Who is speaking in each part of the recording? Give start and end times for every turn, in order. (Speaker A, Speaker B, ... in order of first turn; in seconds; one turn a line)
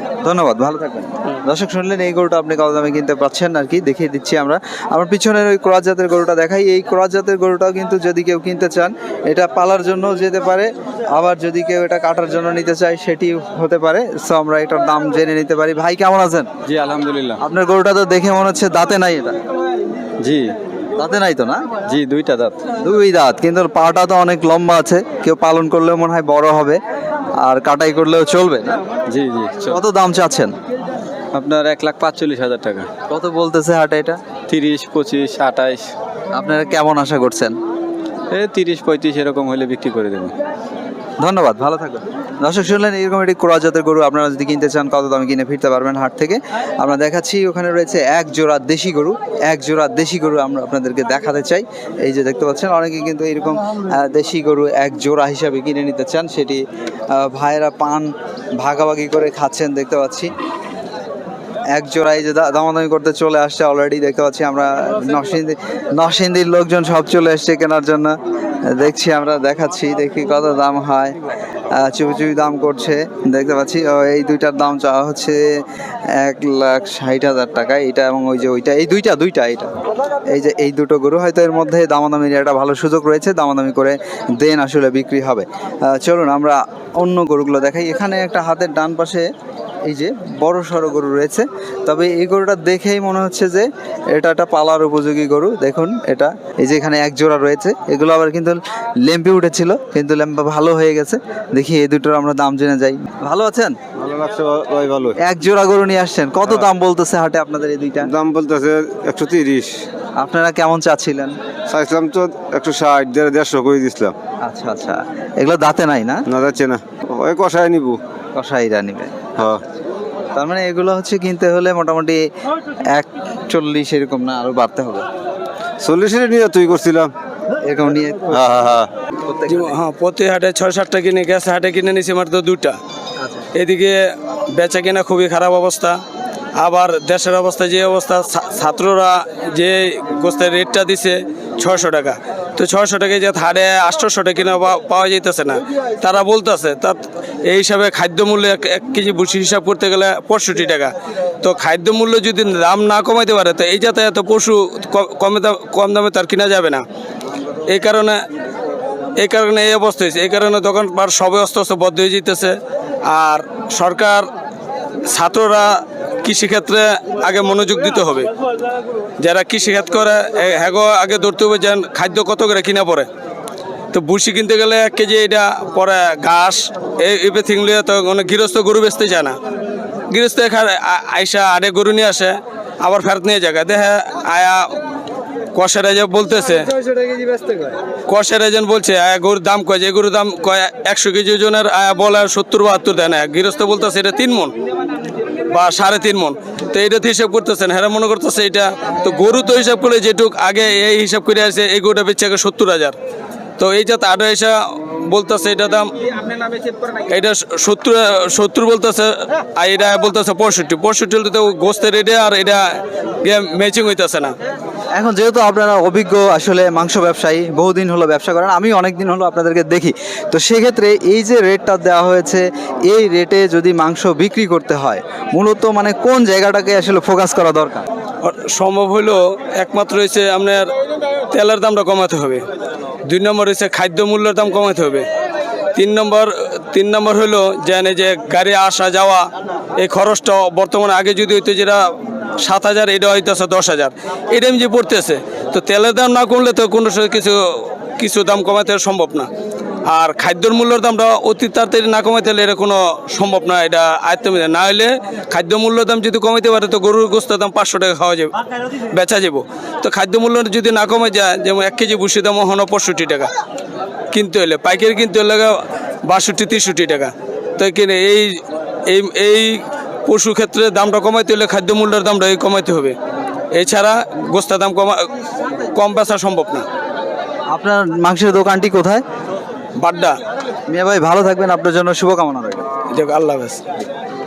Speaker A: 0.2-16.5
Speaker B: 16.7-17.4
Speaker A: 17.4-19.4
Speaker B: 20.2-20.5
Speaker A: 21.0-21.6
Speaker B: 21.9-22.6
Speaker A: 22.8-26.8
Speaker A: 27.4-28.8
Speaker B: 29.1-29.8
Speaker A: 29.7-30.5
Speaker B: 31.3-32.9
Speaker A: 33.1-34.2
Speaker B: 34.5-35.9
Speaker A: 36.3-37.5
Speaker B: 38.3-40.3
Speaker A: 41.2-60.3
Speaker A: 61.7-68.2
Speaker A: 68.7-71.2
Speaker A: 71.7-75.6
Speaker A: 76.2-79.7
Speaker A: 80.3-89.3
Speaker A: 89.9-103.8
Speaker C: 104.0-105.1
Speaker A: 105.2-108.1
Speaker C: 108.1-109.7
Speaker A: 110.2-111.3
Speaker C: 111.7-114.1
Speaker A: 114.5-116.2
Speaker C: 116.3-118.0
Speaker A: 118.4-119.2
Speaker A: 120.3-122.2
Speaker A: 122.9-125.0
Speaker C: 125.8-127.1
Speaker A: 127.6-128.4
Speaker C: 128.3-128.9
Speaker A: 129.2-129.8
Speaker D: 129.5-132.8
Speaker A: 133.2-133.5
Speaker D: 133.6-134.0
Speaker D: 134.6-136.0
Speaker D: 136.6-156.8
Speaker D: 157.7-158.2
Speaker D: 159.2-162.6
Speaker D: 163.1-164.2
Speaker D: 165.1-168.3
Speaker D: 169.2-173.1
Speaker D: 173.9-179.4
Speaker D: 180.1-184.7
Speaker D: 185.5-186.7
Speaker D: 188.1-194.6
Speaker D: 195.5-203.0
Speaker D: 203.6-205.9
Speaker D: 207.1-214.3
Speaker A: 214.9-227.9
Speaker D: 228.2-230.7
Speaker D: 231.3-232.4
Speaker D: 233.1-235.0
Speaker D: 235.8-239.3
Speaker D: 239.8-241.8
Speaker D: 242.4-249.3
Speaker D: 249.9-258.3
Speaker D: 258.9-263.3
Speaker D: 264.1-268.3
Speaker D: 268.9-272.9
Speaker D: 273.6-276.6
Speaker A: 277.5-279.0
Speaker D: 279.8-280.1
Speaker A: 280.7-282.7
Speaker D: 282.9-283.6